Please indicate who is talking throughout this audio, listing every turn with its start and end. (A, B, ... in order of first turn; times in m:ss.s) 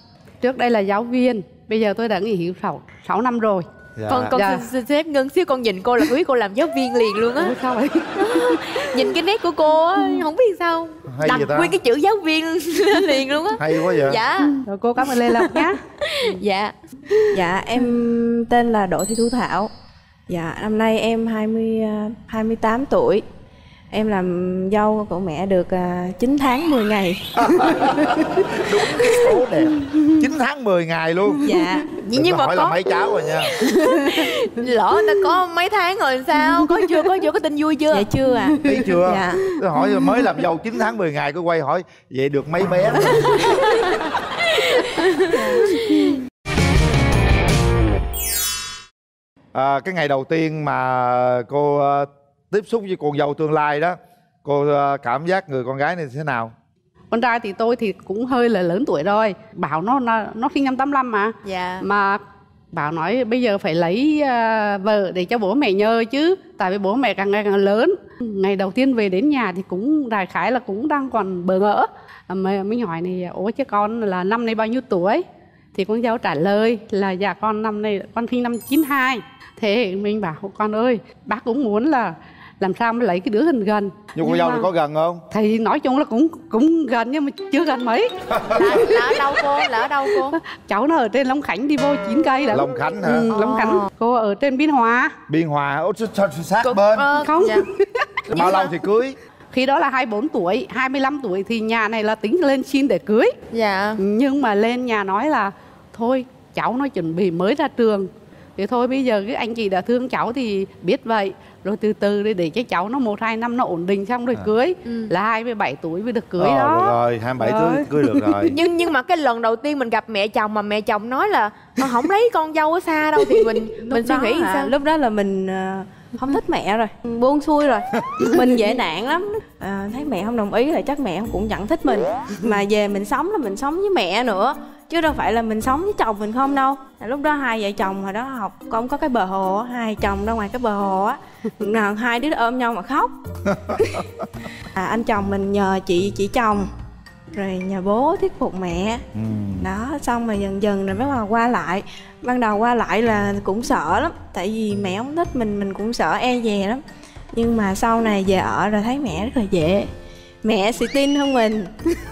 0:00.4-0:03.7 A
0:04.0-0:04.4 B
0:04.1-0:07.6 C
0:04.3-0:04.6 A
0:07.4-0:09.0 A
0:08.2-0:17.4 C
0:11.1-0:11.8 B
0:13.6-0:14.2 B
0:14.4-0:15.8 A
0:17.3-0:19.7 D
0:20.3-0:23.2 D
0:23.9-0:28.0 D
0:27.4-0:31.5 B
0:29.1-0:29.4 D
0:31.4-0:31.9 D
0:31.9-0:32.8 C
0:32.1-0:33.5 B
0:33.4-0:38.1 C
0:37.9-0:39.4 D
0:38.6-0:43.4 B
0:43.4-0:44.0 C
0:44.6-0:46.1 C
0:45.3-0:45.7 D
0:49.5-0:56.5 B
0:57.1-1:24.7 A
1:01.4-1:01.9 C
1:24.2-1:25.2 B
1:25.3-1:28.1 A
1:28.3-1:28.8 B
1:28.5-1:30.4 C
1:28.7-1:29.0 A
1:30.4-1:35.1 A
1:32.5-1:33.3 B
1:33.3-1:33.9 C
1:35.3-1:37.1 B
1:36.6-1:37.6 C
1:37.2-1:38.3 A
1:38.3-1:38.7 C
1:38.3-1:39.2 B
1:39.5-1:43.4 A
1:43.5-1:44.0 C
1:44.0-1:58.5 A
1:56.4-1:58.5 B
1:58.5-2:04.7 C
2:03.8-2:23.1 D
2:23.5-2:23.8 B
2:23.7-2:24.0 D
2:24.7-2:26.7 D
2:27.3-2:29.0 D
2:29.2-2:29.7 B
2:29.6-2:36.8 D
2:37.3-2:39.9 D
2:40.4-2:41.7 D